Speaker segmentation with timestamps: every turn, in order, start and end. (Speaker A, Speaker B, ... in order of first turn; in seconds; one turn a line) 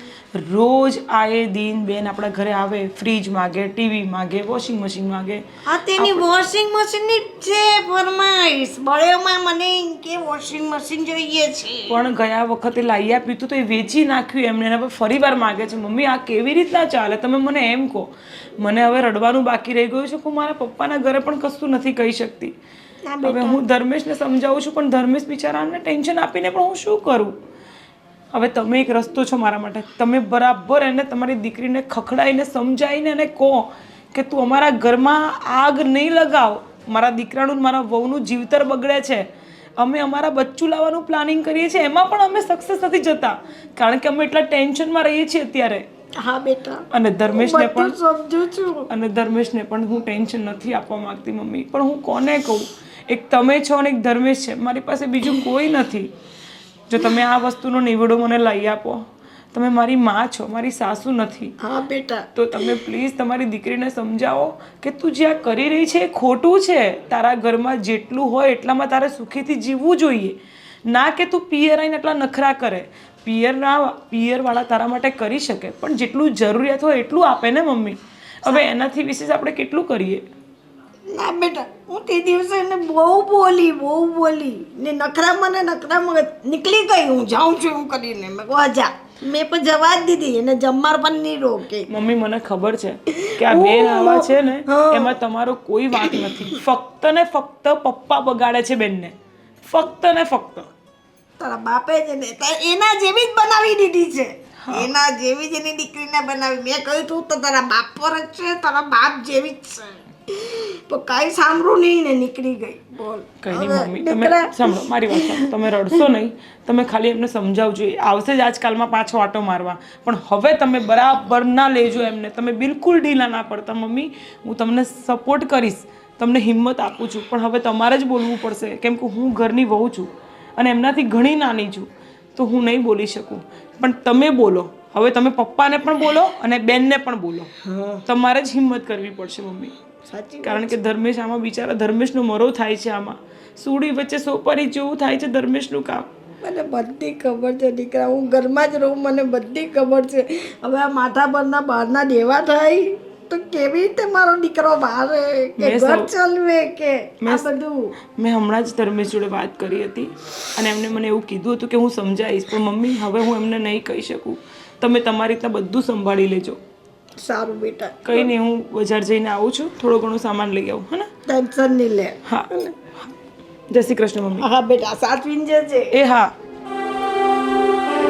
Speaker A: 0.4-5.4
Speaker B: 5.7-12.1
Speaker A: 6.0-6.3
Speaker A: 11.9-22.5
Speaker B: 23.1-23.6
Speaker A: 23.2-27.3
Speaker A: 28.3-39.3
Speaker A: 39.8-45.9
Speaker B: 46.2-48.9
Speaker A: 46.9-48.0
Speaker A: 48.9-56.1
Speaker A: 56.9-61.5
Speaker B: 61.6-62.7
Speaker A: 62.4-70.4
Speaker A: 70.9-80.2
Speaker B: 81.1-91.9
Speaker A: 91.9-99.2
Speaker B: 93.2-95.2
Speaker B: 95.9-96.5
Speaker A: 99.7-100.7
Speaker B: 101.4-115.5
Speaker A: 104.6-104.9
Speaker A: 113.4-137.5
Speaker B: 137.6-138.0
Speaker A: 138.1-139.7
Speaker B: 140.1-140.8
Speaker A: 140.4-146.1
Speaker B: 146.4-157.9
Speaker A: 155.6-156.1
Speaker A: 157.2-157.5
Speaker A: 158.2-166.6
Speaker B: 167.2-168.3
Speaker A: 168.1-171.1
Speaker B: 171.3-172.2
Speaker A: 172.3-173.1
Speaker A: 173.7-174.5
Speaker B: 174.4-175.9
Speaker A: 175.9-176.3